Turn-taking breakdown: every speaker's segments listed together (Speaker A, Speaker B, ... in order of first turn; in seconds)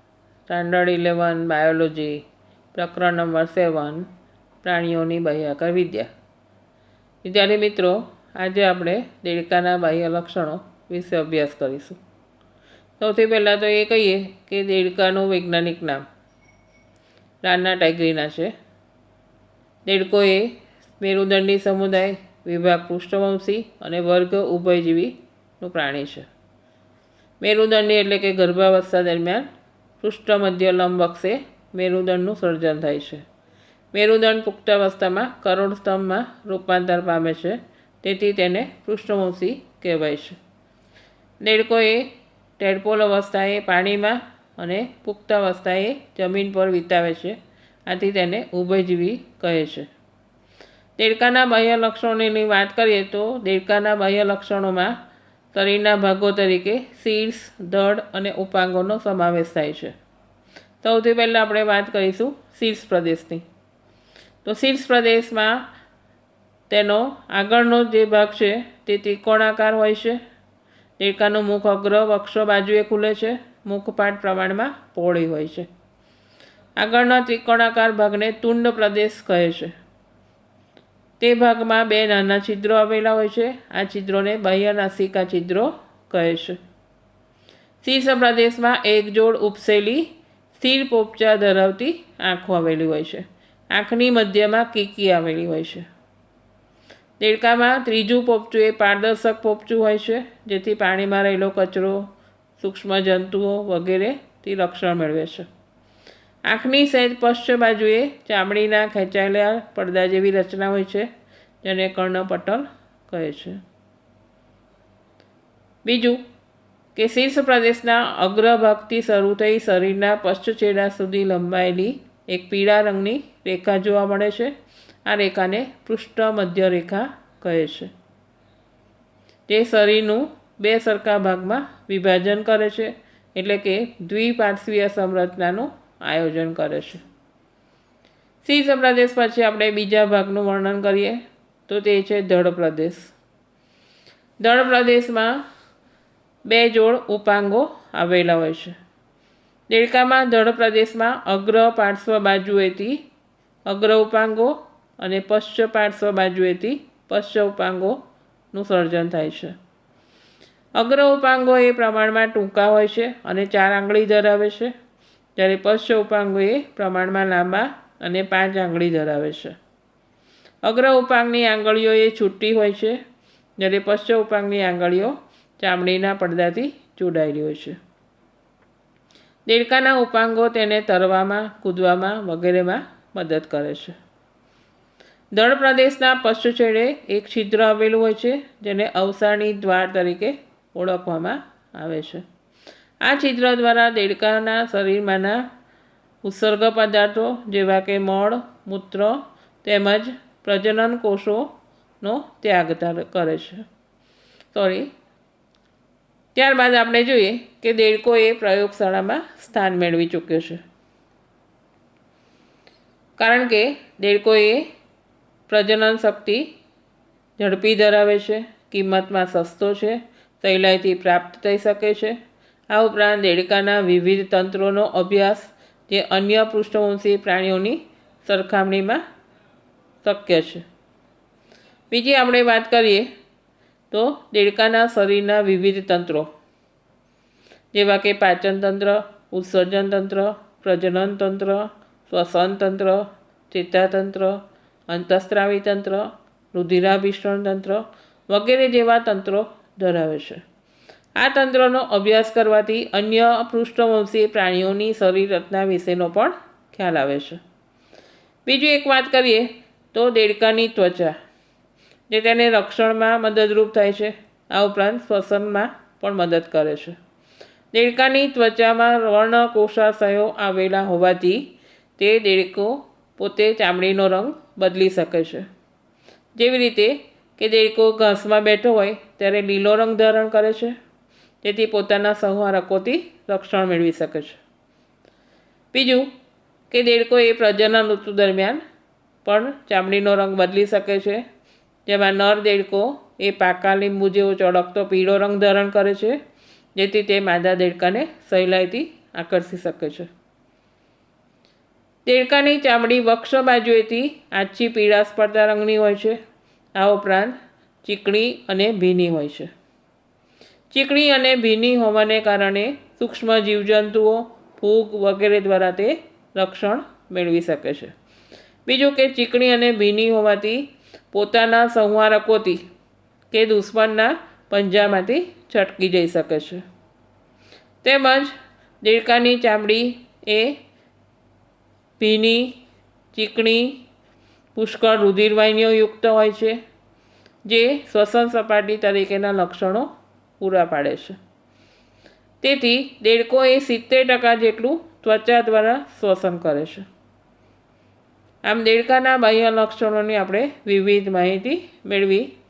Speaker A: 0.5-4.1, 4.6-6.1, 7.2-12.0, 13.0-16.0, 17.4-18.5, 19.9-26.3, 27.4-29.5, 30.0-33.2, 33.9-40.4, 41.4-49.9, 51.0-54.9, 55.5-59.9, 60.8-63.4, 64.4-65.7, 66.7-70.2, 71.0-75.7, 76.8-79.7, 81.2-86.6, 87.8-95.8, 97.2-102.0, 102.6-105.5, 106.5-111.1, 111.6-113.6, 115.8-116.2, 116.9-124.5, 125.0-127.9, 129.5-137.0, 138.4-143.1, 144.4-145.4, 146.4-148.7, 149.7-153.0, 153.7-158.0, 158.5-159.5, 160.8-164.7, 165.3-169.6, 170.6-173.0, 173.6-177.8, 179.4-183.9, 185.3-192.2, 193.0-195.4, 196.2-201.5, 202.0-203.6, 204.5-204.9, 206.3-210.6, 213.2-214.7, 215.5-216.5, 217.4-222.2, 222.7-229.0, 230.0-230.6, 231.9-233.1, 233.9-236.3, 237.7-250.4, 251.2-257.4, 258.4-261.1, 262.1-267.0, 267.7-275.5, 276.4-280.8, 281.4-284.4, 285.7-286.1, 286.7-288.6, 289.2-291.2, 291.9-296.2, 296.7-300.1, 302.1-306.2, 306.7-309.5, 310.7-317.9, 318.6-322.6, 323.3-326.6, 327.8-330.6, 332.0-332.6, 333.1-333.8, 334.5-336.6, 337.4-339.9, 340.4-341.2, 342.4-346.8, 348.4-352.3